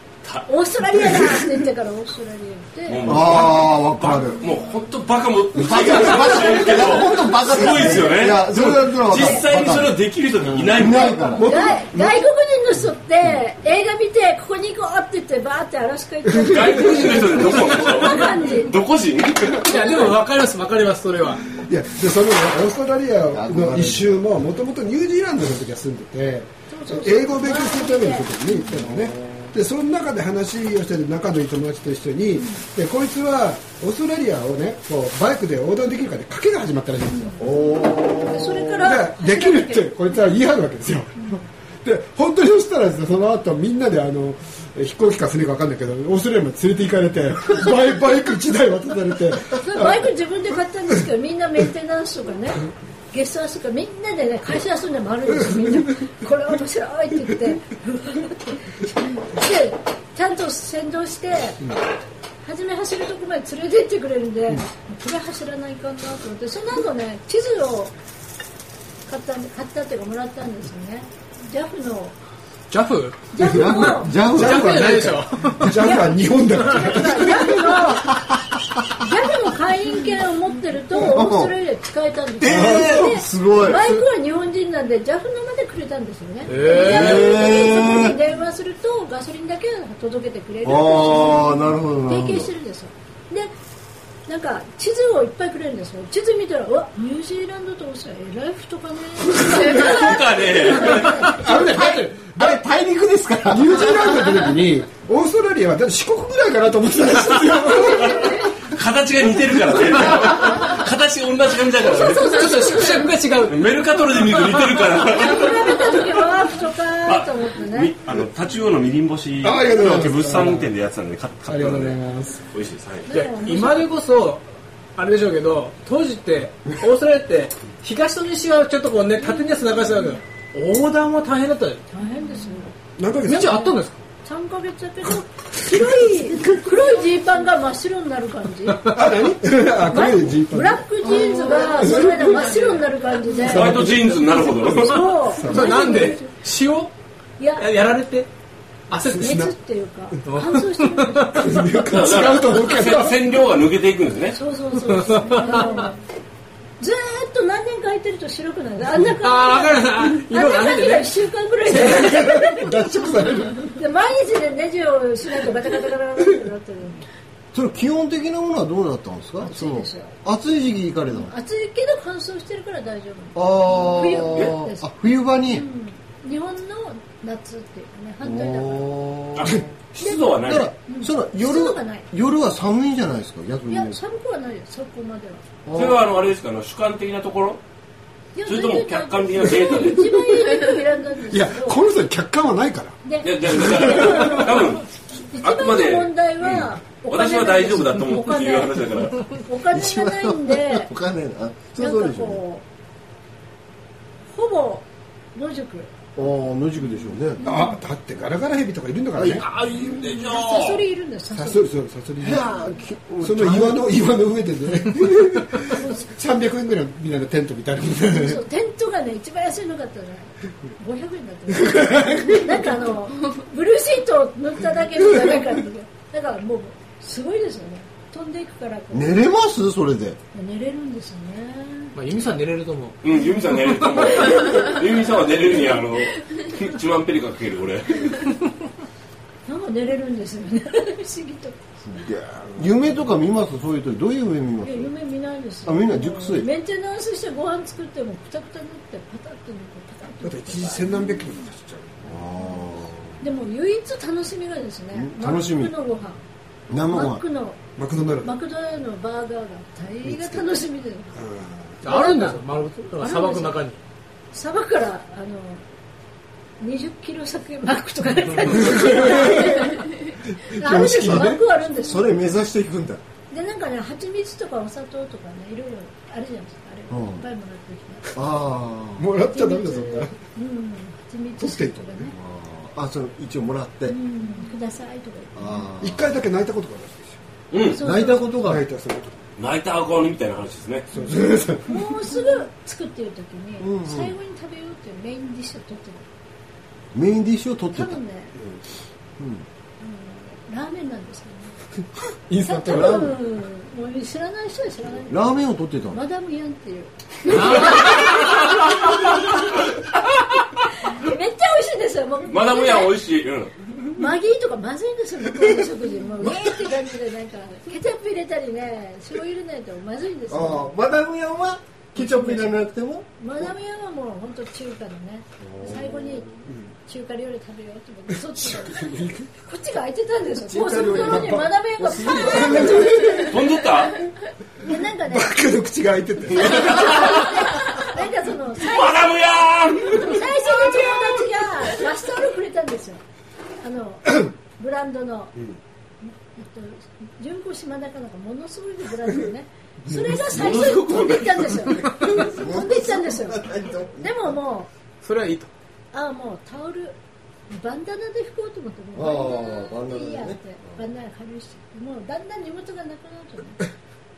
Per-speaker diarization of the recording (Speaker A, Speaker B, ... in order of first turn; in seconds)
Speaker A: 0.2-1.2, 2.9-11.2, 16.4-20.0, 99.4-101.3, 107.1-112.7, 113.5-116.2, 117.0-123.2, 143.4-145.1, 151.8-154.4, 179.3-180.7, 185.7-187.6, 188.4-190.4, 193.2-199.3, 209.8-210.8, 233.0-238.4, 287.5-287.8, 289.4-290.9, 307.4-309.8, 312.3-313.8, 333.2-333.9, 336.4-337.6, 338.6-341.0, 350.2-351.9
Speaker B: 0.5-3.1, 10.9-18.8, 26.7-28.3, 32.4-32.6, 38.3-39.9, 49.6-61.7, 62.4-67.9, 69.0-72.2, 73.3-74.2, 75.8-78.2, 78.9-93.5, 94.2-101.2, 107.7-108.6, 111.8-113.2, 115.0-117.9, 123.0-123.9, 129.2-130.2, 131.9-132.7, 133.2-138.8, 139.9-146.3, 147.4-147.7, 149.2-151.7, 154.3-156.0, 156.8-167.0, 169.4-170.2, 171.2-174.9, 175.4-179.0, 180.0-182.1, 183.7-185.4, 188.3-191.8, 193.0-200.9, 201.8-202.6, 204.3-205.9, 207.4-207.8, 209.8-211.6, 215.7-216.1, 218.1-229.2, 230.3-231.9, 239.4-241.6, 244.6-251.4, 253.2-256.2, 256.9-257.6, 258.2-261.1, 261.9-262.4, 263.0-263.6, 264.3-265.6, 266.6-272.2, 273.3-278.1, 279.2-282.1, 283.9-285.6, 287.6-288.4, 291.7-296.1, 297.7-298.3, 299.8-301.6, 302.4-305.3, 305.9-309.6, 310.8-312.9, 313.9-320.7, 321.9-322.6, 323.2-334.0, 334.6-335.4, 336.4-343.0, 343.6-345.3, 346.0-354.7, 355.9-356.9, 357.5-363.6
Speaker C: 3.0-4.4, 5.6-11.5, 23.3-24.2, 28.7-29.5, 37.4-38.8, 73.4-74.6, 80.9-81.5, 82.4-83.9, 86.8-88.2, 90.6-92.5, 101.3-104.4, 167.5-171.3, 173.3-175.6, 178.2-179.7, 180.4-184.0, 185.6-186.1, 199.7-202.4, 206.2-207.4, 209.1-210.2, 212.2-213.9, 228.9-230.2, 241.8-244.9, 245.6-246.5, 252.1-253.2, 254.9-255.7, 256.7-257.2, 270.9-273.0, 276.9-277.2, 278.1-279.0, 282.1-283.9, 285.3-286.1, 287.8-288.6, 293.6-294.1, 296.9-298.0, 299.2-299.4, 302.7-303.1, 305.1-306.0, 320.3-323.5, 325.4-326.3, 330.5-333.0, 352.2-354.3, 358.9-360.7
Speaker D: 5.7-6.2, 11.3-12.2, 16.2-17.2, 21.5-37.4, 38.8-50.1, 74.3-77.8, 82.5-83.1, 100.8-102.6, 103.5-108.5, 119.4-120.7, 121.5-122.4, 133.0-133.7, 138.9-140.8, 141.7-142.5, 143.6-145.9, 148.9-149.5, 151.3-153.2, 161.7-163.6, 189.8-190.6, 191.3-194.3, 207.4-209.4, 211.3-218.4, 221.7-222.3, 242.5-243.1, 250.2-252.1, 257.8-258.3, 260.1-260.5, 261.1-261.8, 268.7-269.8, 270.4-271.4, 279.0-280.1, 281.4-282.1, 285.8-287.2, 288.4-289.2, 290.9-291.9, 302.3-303.1, 326.4-326.7, 328.1-329.3, 330.5-333.2, 335.0-337.2
Speaker E: 19.6-21.4, 72.7-73.2, 74.4-75.8, 86.5-87.2, 112.2-114.5, 123.1-124.4, 125.0-131.8, 133.2-134.0, 141.0-143.5, 145.4-146.9, 147.6-148.3, 148.9-149.3, 150.2-151.3, 154.9-155.6, 159.0-161.1, 231.9-233.0, 261.8-263.8, 307.4-307.6, 355.0-355.5